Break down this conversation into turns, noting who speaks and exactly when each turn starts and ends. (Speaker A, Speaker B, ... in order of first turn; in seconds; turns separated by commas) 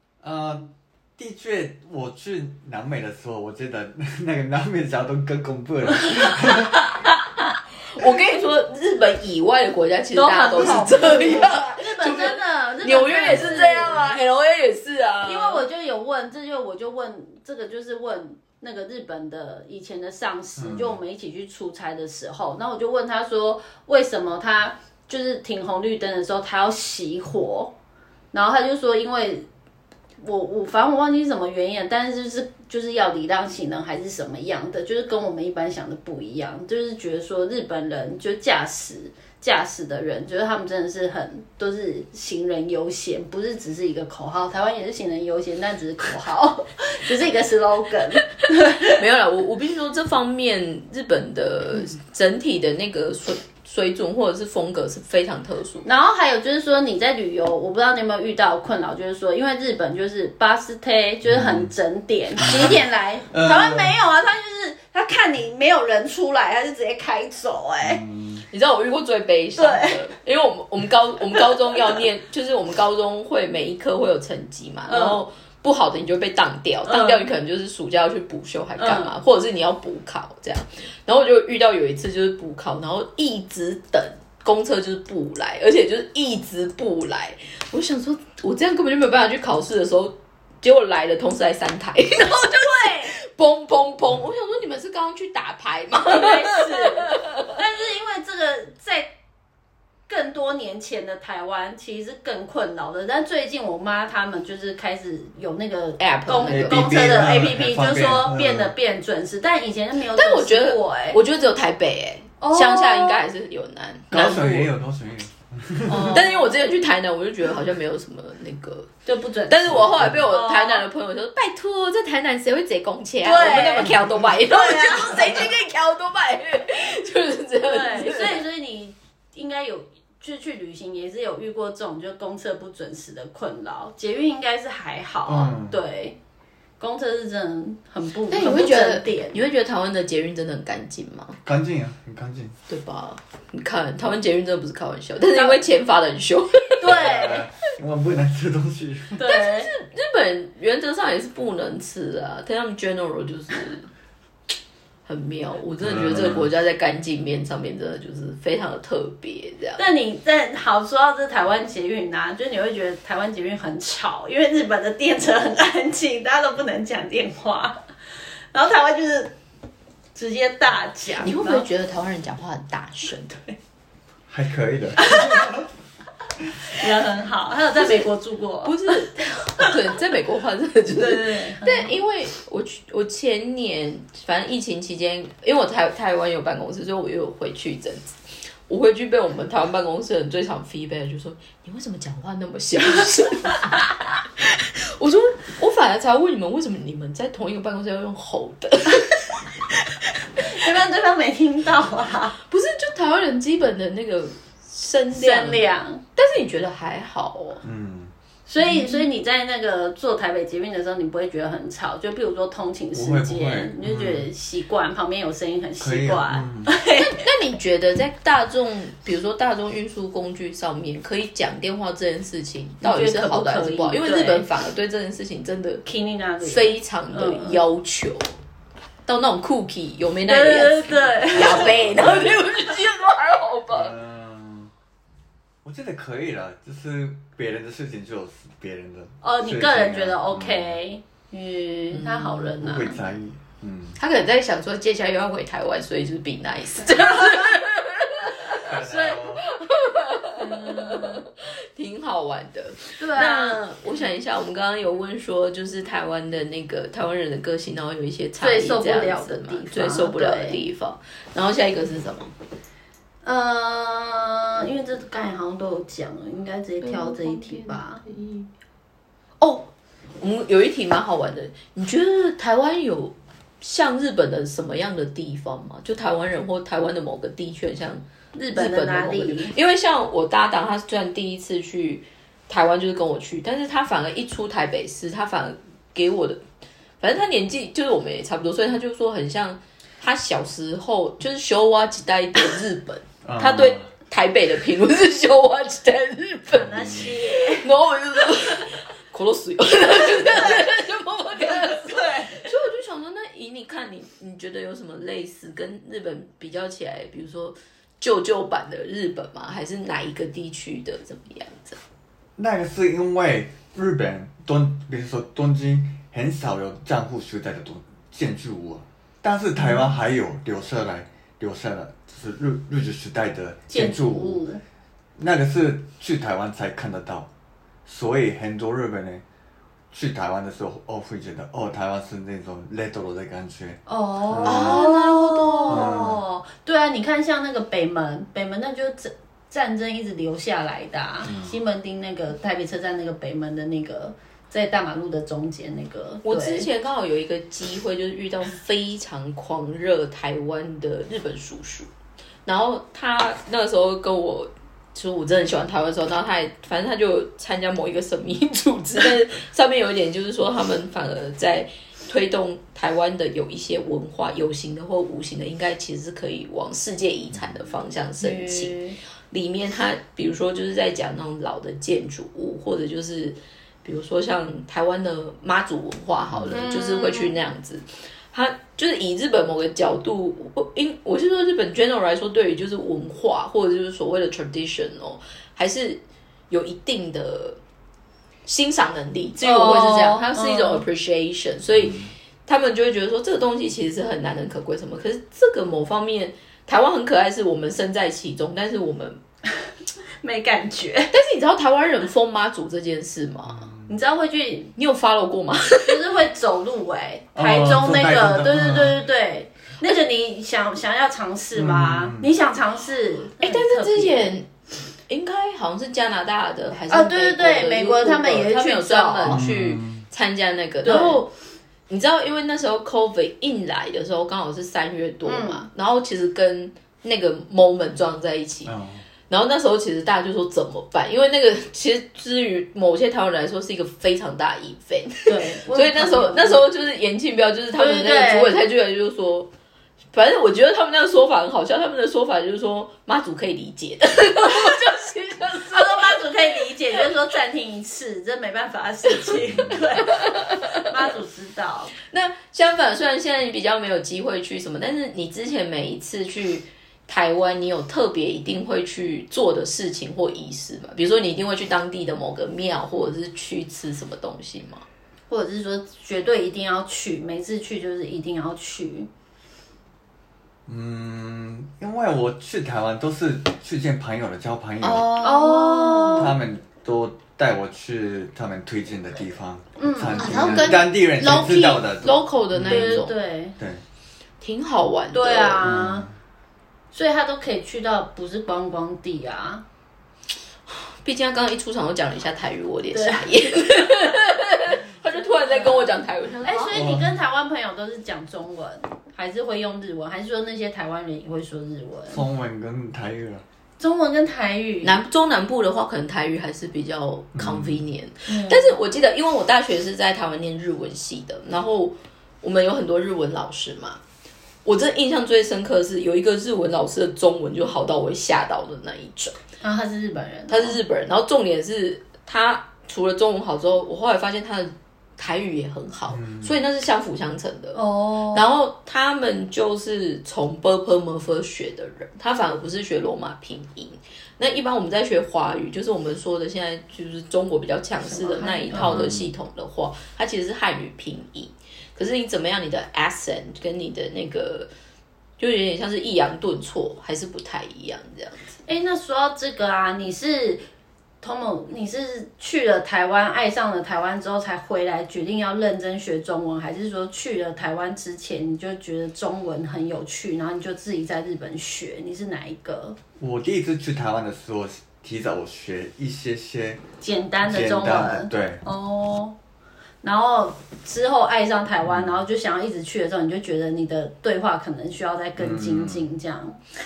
Speaker A: 0.2-6.8, Speaker B: 7.9-15.6, Speaker C: 10.1-14.2, Speaker A: 13.2-13.8, Speaker C: 15.2-27.7, Speaker A: 20.6-21.0, Speaker C: 28.3-29.5, Speaker C: 30.2-49.0, Speaker B: 48.9-55.9, Speaker C: 55.8-68.0, Speaker A: 61.2-61.7, Speaker A: 62.4-64.0, Speaker A: 67.8-68.5, Speaker B: 68.5-97.5, Speaker C: 69.6-70.1, Speaker C: 74.9-75.2, Speaker C: 76.9-77.2, Speaker C: 78.8-79.1, Speaker C: 92.2-93.1, Speaker C: 96.0-99.1, Speaker C: 100.1-111.2, Speaker B: 106.0-107.0, Speaker A: 106.5-108.7, Speaker B: 110.1-114.7, Speaker C: 112.4-113.2, Speaker A: 114.1-116.2, Speaker C: 115.9-116.5, Speaker B: 115.9-118.9, Speaker C: 119.0-120.9, Speaker B: 119.5-128.4, Speaker A: 119.7-120.2, Speaker C: 123.2-125.5, Speaker C: 127.6-136.2, Speaker A: 135.2-135.8, Speaker C: 136.8-139.4, Speaker B: 138.3-141.4, Speaker A: 141.4-142.6, Speaker B: 142.7-147.1, Speaker C: 145.2-145.6, Speaker C: 146.8-147.5, Speaker A: 146.8-149.2, Speaker C: 149.2-149.7, Speaker B: 149.2-153.9, Speaker B: 155.1-159.8, Speaker A: 155.8-156.5, Speaker C: 159.8-167.8, Speaker C: 168.5-169.3, Speaker C: 170.1-171.7, Speaker B: 171.2-173.4, Speaker A: 174.3-175.7, Speaker C: 175.0-175.6, Speaker C: 176.7-178.9, Speaker B: 178.6-188.2, Speaker C: 180.9-181.9, Speaker B: 188.7-199.4, Speaker C: 200.3-202.4, Speaker B: 202.5-207.6, Speaker C: 205.1-206.0, Speaker A: 207.6-208.1, Speaker C: 208.5-217.2, Speaker B: 208.6-209.0, Speaker A: 212.9-214.3, Speaker A: 215.8-216.7, Speaker B: 216.9-225.8, Speaker C: 222.8-224.5, Speaker C: 225.8-227.6, Speaker B: 226.4-228.3, Speaker B: 229.1-233.9, Speaker C: 230.2-231.8, Speaker A: 231.3-232.3, Speaker A: 233.7-234.7, Speaker A: 235.6-240.8, Speaker C: 239.2-243.0, Speaker B: 241.9-242.6, Speaker A: 242.5-244.0, Speaker B: 243.9-248.6, Speaker C: 247.2-247.5, Speaker A: 248.6-249.4, Speaker C: 248.7-249.3, Speaker B: 249.4-262.3, Speaker C: 250.3-251.2, Speaker C: 253.0-253.6, Speaker C: 258.4-260.6, Speaker C: 263.2-268.0, Speaker B: 266.8-268.5, Speaker B: 269.4-286.4, Speaker C: 278.4-279.5, Speaker B: 287.0-311.8, Speaker A: 293.2-293.9, Speaker C: 296.5-297.7, Speaker A: 296.6-297.1, Speaker C: 300.1-300.6, Speaker C: 301.4-302.5, Speaker A: 312.4-324.4, Speaker C: 323.7-324.6, Speaker A: 325.2-327.3, Speaker A: 327.9-329.2, Speaker A: 329.9-334.8, Speaker C: 333.9-346.7, Speaker B: 334.4-335.9, Speaker A: 335.7-336.2, Speaker A: 341.2-341.6, Speaker B: 346.2-351.9, Speaker B: 352.4-368.8, Speaker A: 367.3-367.6, Speaker C: 368.2-369.0, Speaker B: 369.3-387.6, Speaker A: 376.3-376.6, Speaker C: 376.5-377.4, Speaker B: 388.4-399.2, Speaker C: 389.4-390.8, Speaker A: 391.8-392.1, Speaker C: 400.2-401.1, Speaker B: 401.1-403.7, Speaker A: 403.5-404.0, Speaker C: 403.9-404.7, Speaker B: 404.8-406.0, Speaker C: 405.8-414.3, Speaker A: 407.3-409.0, Speaker A: 411.5-412.3, Speaker B: 413.4-414.5, Speaker B: 415.1-421.3, Speaker C: 416.9-419.4, Speaker A: 419.2-420.0, Speaker C: 420.8-421.2, Speaker B: 421.9-428.7, Speaker C: 425.2-425.7, Speaker A: 428.6-429.0, Speaker B: 429.3-439.5, Speaker C: 435.2-436.7, Speaker C: 437.8-438.6, Speaker B: 440.1-446.3, Speaker C: 444.5-444.8, Speaker C: 445.6-451.9, Speaker B: 449.1-449.4, Speaker A: 449.4-449.8, Speaker B: 450.0-451.1, Speaker B: 452.1-464.8, Speaker C: 465.3-469.1, Speaker A: 470.6-475.1, Speaker B: 474.8-476.3, Speaker C: 475.2-476.4, Speaker A: 476.1-483.1, Speaker C: 479.8-480.9, Speaker B: 480.1-483.1, Speaker C: 482.6-483.6, Speaker A: 483.6-483.8, Speaker B: 484.4-485.7, Speaker C: 485.1-486.1, Speaker A: 485.6-486.1, Speaker C: 486.9-489.6, Speaker B: 490.7-496.8, Speaker C: 492.9-493.9, Speaker C: 495.1-502.2, Speaker A: 496.7-497.1, Speaker A: 502.1-503.4, Speaker C: 503.8-505.0, Speaker B: 504.8-514.0, Speaker A: 507.3-507.8, Speaker C: 508.3-508.8, Speaker B: 514.6-519.4, Speaker C: 519.6-520.8, Speaker B: 520.5-544.7, Speaker A: 526.1-526.5, Speaker C: 527.8-528.4, Speaker C: 538.0-539.0, Speaker A: 538.7-539.3, Speaker B: 545.4-548.5, Speaker C: 548.6-550.6, Speaker C: 551.2-563.0, Speaker A: 563.2-566.8, Speaker C: 567.0-569.4, Speaker A: 567.4-568.6, Speaker C: 570.0-576.6, Speaker A: 571.8-572.2, Speaker A: 575.4-576.0